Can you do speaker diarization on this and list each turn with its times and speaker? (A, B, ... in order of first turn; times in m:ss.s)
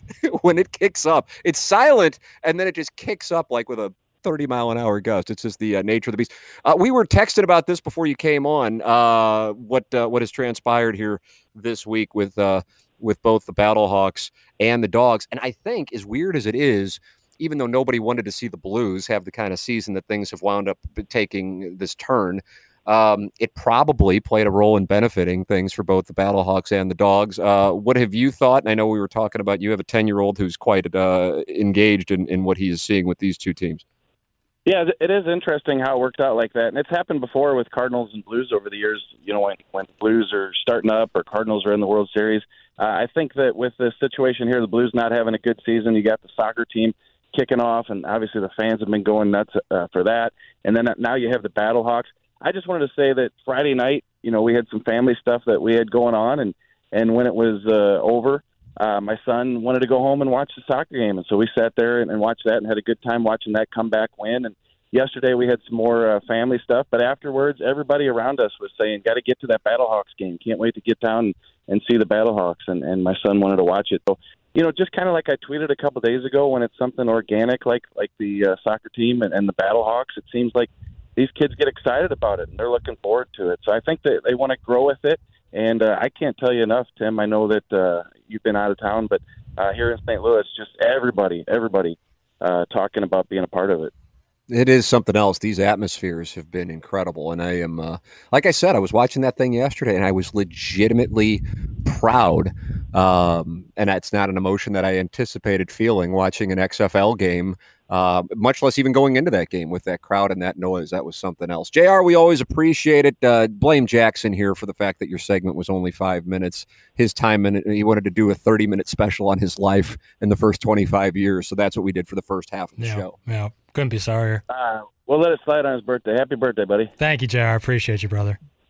0:00.2-0:33.8 A
0:34.7-1:33.9 B
1:34.5-2:03.2 A
2:02.8-2:04.4 C
2:04.5-2:06.9 B
2:07.0-2:08.4 C